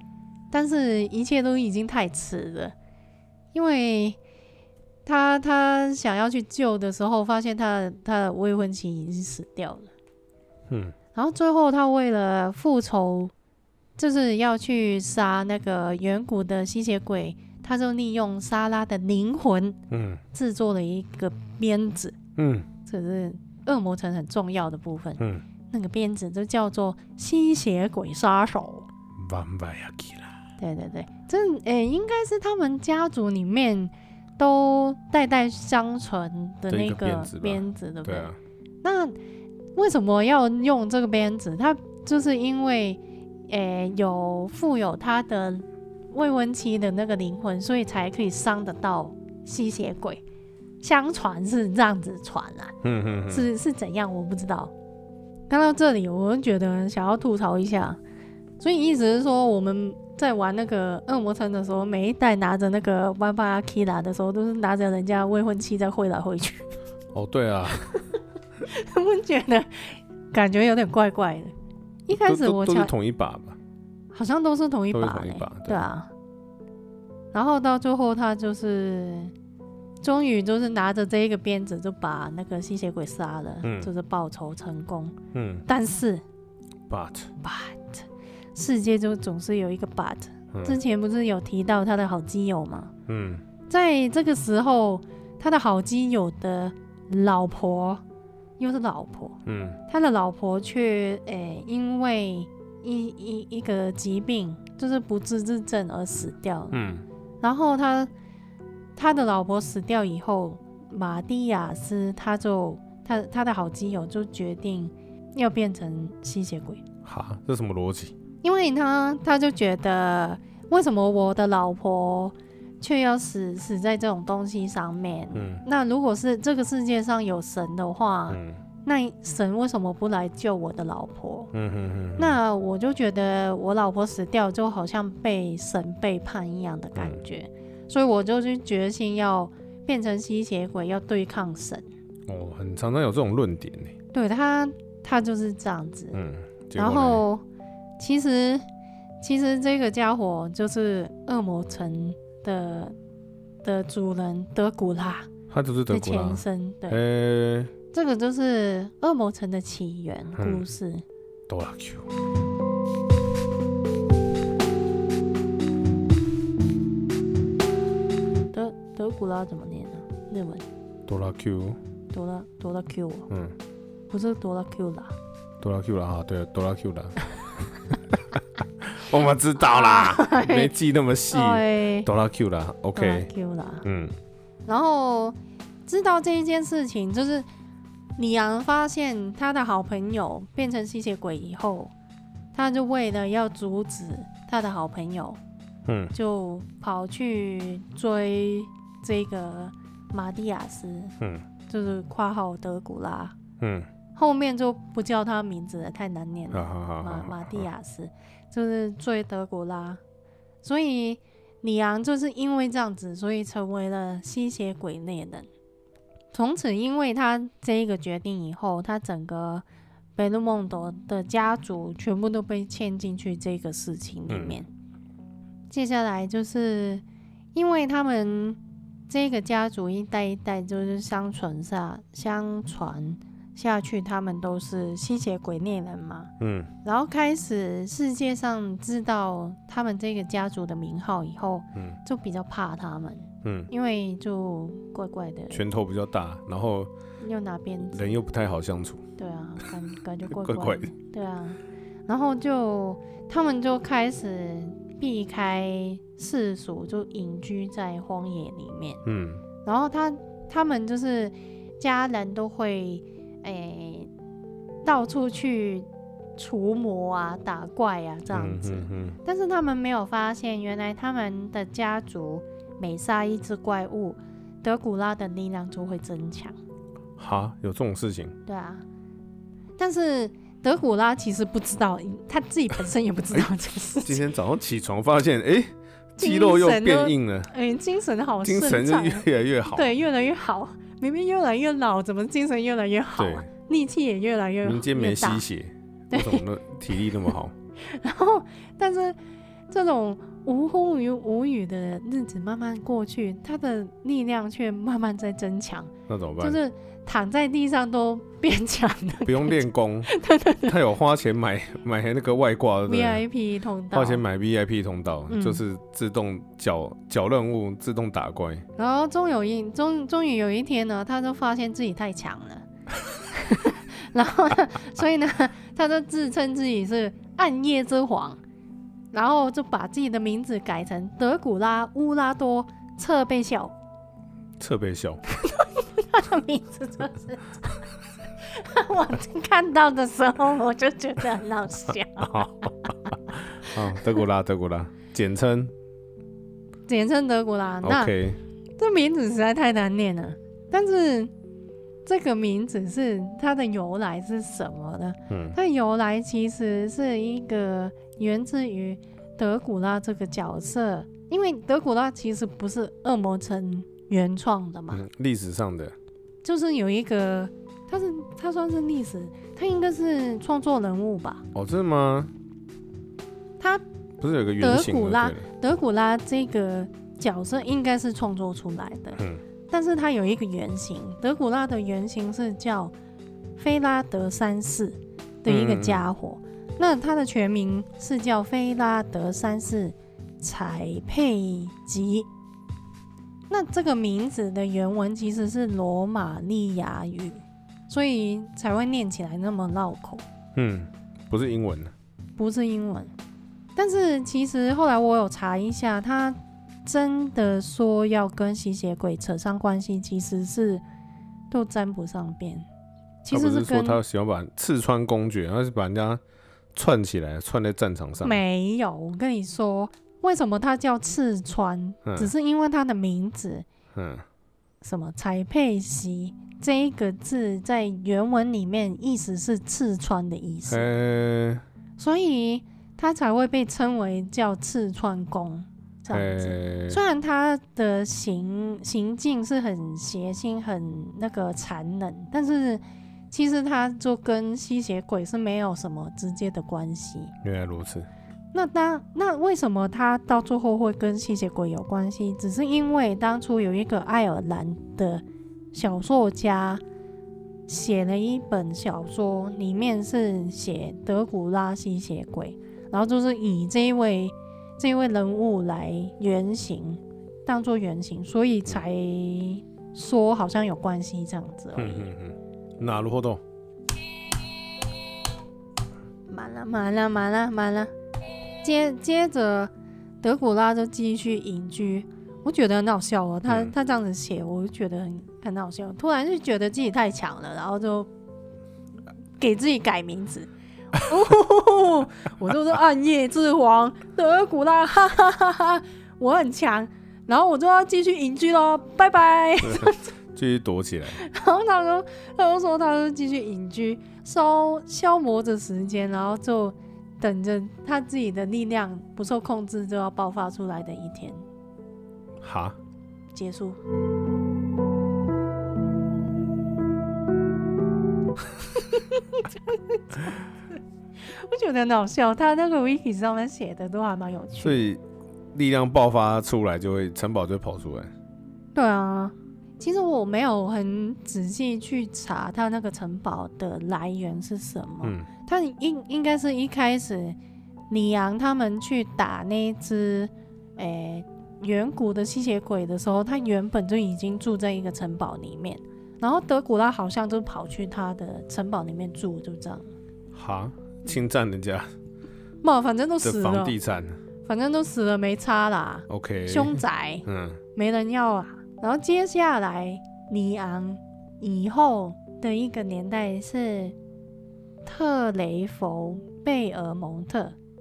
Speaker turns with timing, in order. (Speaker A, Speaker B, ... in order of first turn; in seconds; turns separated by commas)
Speaker A: 0.5-2.7, Speaker A: 3.5-4.2, Speaker A: 5.1-9.9, Speaker B: 10.7-10.9, Speaker A: 11.1-13.3, Speaker A: 14.0-19.8, Speaker B: 19.9-20.2, Speaker A: 20.3-22.2, Speaker B: 22.4-22.7, Speaker A: 22.9-28.9, Speaker B: 25.2-25.4, Speaker B: 29.2-30.3, Speaker A: 30.6-38.3, Speaker B: 36.7-38.4, Speaker A: 38.8-39.1, Speaker A: 39.8-50.2, Speaker A: 50.8-52.8, Speaker B: 52.8-53.5, Speaker A: 53.3-54.7, Speaker A: 55.5-58.0, Speaker A: 58.6-66.7, Speaker B: 67.1-67.9, Speaker A: 68.6-71.5, Speaker A: 72.1-72.9, Speaker B: 72.1-73.6, Speaker A: 74.1-76.1, Speaker B: 74.9-75.8, Speaker A: 77.3-79.3, Speaker A: 80.0-85.1, Speaker B: 83.6-83.9, Speaker B: 85.3-85.7, Speaker A: 85.7-86.2, Speaker B: 86.9-87.3, Speaker A: 87.4-92.9, Speaker B: 90.5-90.8, Speaker B: 93.1-93.4, Speaker A: 93.7-98.0, Speaker A: 98.6-106.8, Speaker B: 99.5-99.8, Speaker B: 106.7-107.0, Speaker A: 107.4-108.1, Speaker A: 109.0-116.8, Speaker B: 117.0-118.1, Speaker A: 118.4-131.5, Speaker B: 125.3-125.6, Speaker B: 128.3-128.6, Speaker B: 131.5-132.4, Speaker A: 132.2-141.9, Speaker B: 142.3-143.9, Speaker A: 144.1-146.2, Speaker B: 146.1-147.2, Speaker A: 146.8-147.4, Speaker A: 148.0-148.6, Speaker A: 149.2-152.9, Speaker A: 153.6-155.3, Speaker B: 155.5-157.7, Speaker A: 155.9-157.0, Speaker A: 157.9-161.0, Speaker B: 160.4-160.7, Speaker B: 161.5-162.1, Speaker A: 168.5-170.6, Speaker B: 171.1-171.8, Speaker A: 172.1-173.3, Speaker B: 173.3-173.6, Speaker A: 174.1-175.1, Speaker B: 175.6-183.3, Speaker A: 179.6-180.7, Speaker A: 181.3-182.1, Speaker A: 182.9-183.8, Speaker B: 183.8-184.1, Speaker A: 184.7-187.4, Speaker A: 188.2-191.9, Speaker A: 192.5-195.4, Speaker B: 195.9-196.1, Speaker A: 196.1-201.1, Speaker B: 201.2-201.4, Speaker A: 201.7-203.3, Speaker B: 203.6-203.9, Speaker A: 204.2-210.0, Speaker B: 206.5-207.7, Speaker A: 210.6-215.5, Speaker A: 216.3-219.6, Speaker A: 220.2-224.7, Speaker B: 224.3-224.6, Speaker A: 225.7-227.0, Speaker A: 227.6-236.3, Speaker B: 236.4-236.7, Speaker A: 236.8-245.6, Speaker B: 243.4-243.7, Speaker B: 245.5-246.9, Speaker A: 247.2-248.1, Speaker B: 247.9-249.0, Speaker A: 249.2-259.0, Speaker B: 250.3-250.9, Speaker B: 259.1-259.4, Speaker A: 259.6-264.1, Speaker A: 264.8-276.6, Speaker B: 268.3-269.2, Speaker B: 277.2-278.4, Speaker A: 278.4-278.9, Speaker A: 279.8-284.2, Speaker B: 284.0-287.5, Speaker A: 286.2-295.4, Speaker B: 288.4-289.9, Speaker B: 293.2-293.5, Speaker B: 294.6-297.5, Speaker A: 296.1-296.4, Speaker A: 297.8-299.1, Speaker A: 299.7-310.8, Speaker B: 306.1-306.6, Speaker B: 309.2-310.1, Speaker B: 310.6-313.2, Speaker A: 312.9-314.2, Speaker B: 313.9-318.6, Speaker A: 315.3-315.6, Speaker A: 318.8-322.6, Speaker A: 323.3-328.4, Speaker A: 329.1-333.7, Speaker B: 334.6-335.2, Speaker A: 335.4-337.8, Speaker A: 338.4-342.5, Speaker B: 342.2-345.7, Speaker A: 346.9-348.1, Speaker B: 347.8-348.4, Speaker A: 348.8-351.3, Speaker A: 352.1-365.0, Speaker B: 355.3-355.6, Speaker B: 364.9-365.9, Speaker A: 366.4-371.4, Speaker B: 371.5-372.3, Speaker B: 374.2-375.4, Speaker A: 374.6-382.9, Speaker A: 383.6-392.3, Speaker B: 385.4-386.1, Speaker A: 393.5-400.2, Speaker B: 400.6-401.9, Speaker A: 402.4-403.1, Speaker A: 403.8-410.8, Speaker A: 411.5-412.6, Speaker A: 413.2-414.0, Speaker B: 413.3-416.2, Speaker B: 416.8-418.4, Speaker A: 418.2-423.6, Speaker B: 422.1-422.3, Speaker B: 423.9-424.2, Speaker A: 424.8-430.9, Speaker B: 430.7-431.6, Speaker A: 432.0-447.3, Speaker B: 436.1-437.0, Speaker B: 447.4-448.1, Speaker A: 448.5-456.8, Speaker A: 457.7-472.1, Speaker B: 471.8-473.4, Speaker A: 476.3-477.9, Speaker A: 478.6-479.7, Speaker A: 480.2-488.1, Speaker B: 483.5-483.7, Speaker A: 489.4-500.0, Speaker B: 499.6-501.2, Speaker A: 501.1-511.4, Speaker B: 512.4-512.8, Speaker A: 513.3-513.8, Speaker A: 518.8-520.4, Speaker A: 521.2-524.9, Speaker B: 524.6-525.0, Speaker B: 525.5-528.1, Speaker A: 528.8-537.4, Speaker B: 535.0-535.3, Speaker A: 537.9-549.9, Speaker B: 550.3-551.9, Speaker A: 552.6-553.8, Speaker B: 553.2-554.2, Speaker A: 554.5-563.9, Speaker B: 556.1-557.6, Speaker A: 564.9-567.6